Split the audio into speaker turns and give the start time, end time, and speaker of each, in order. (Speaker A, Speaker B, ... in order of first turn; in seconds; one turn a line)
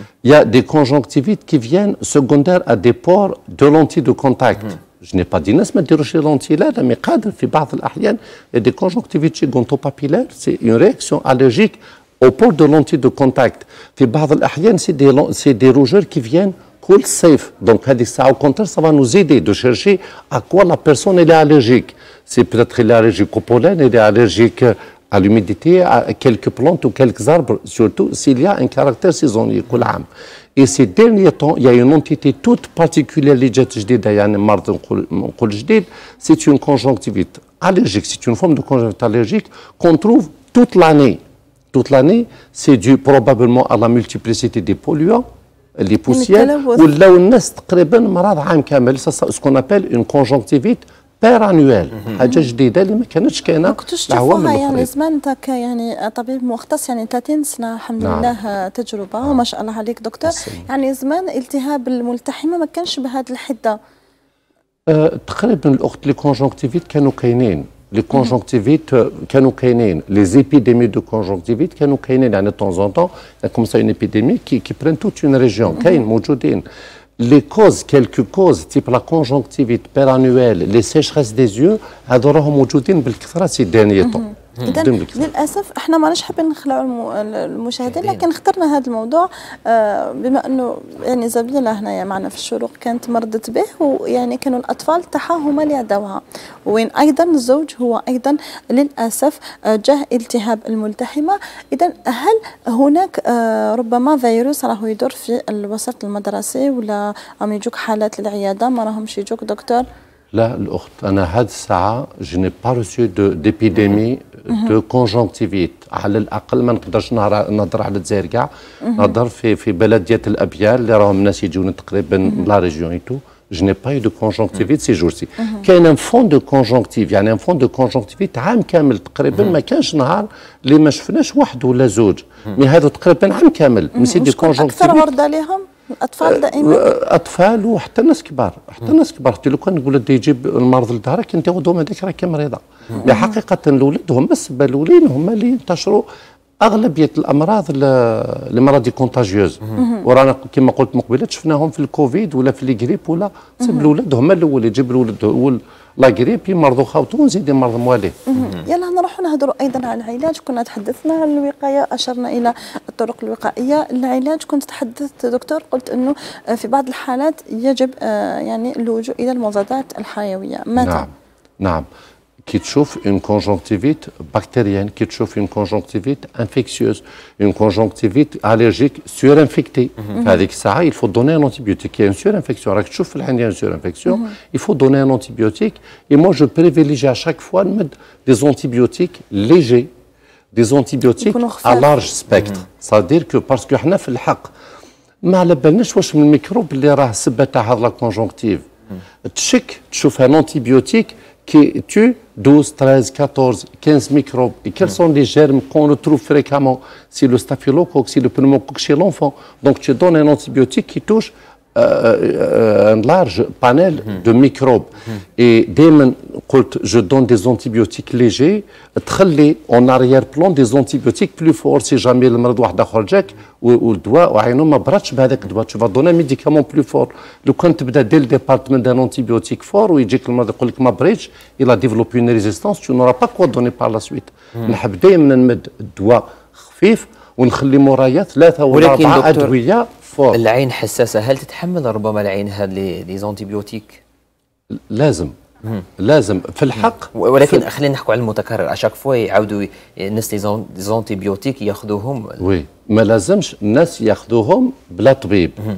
Speaker A: 0.2-41.2
Speaker A: 41.7-45.2
Speaker A: 45.8-54.9
Speaker B: 46.1-46.8
Speaker B: 53.6-63.8
Speaker A: 58.0-58.3
Speaker A: 60.2-60.7
Speaker A: 64.9-76.6
Speaker A: 77.2-85.2
Speaker B: 84.0-109.9
Speaker A: 110.3-135.1
Speaker B: 118.8-119.1
Speaker B: 134.0-136.9
Speaker A: 136.2-146.1
Speaker B: 143.0-143.3
Speaker A: 146.6-158.2
Speaker B: 153.6-153.9
Speaker B: 158.3-171.1
Speaker A: 170.8-171.8
Speaker A: 172.4-189.9
Speaker A: 190.5-194.5
Speaker B: 191.2-191.9
Speaker A: 195.2-198.6
Speaker A: 199.2-240.4
Speaker C: 238.7-239.5
Speaker C: 240.3-244.0
Speaker A: 244.7-245.3
Speaker A: 246.0-247.7
Speaker C: 247.1-252.4
Speaker A: 252.4-255.6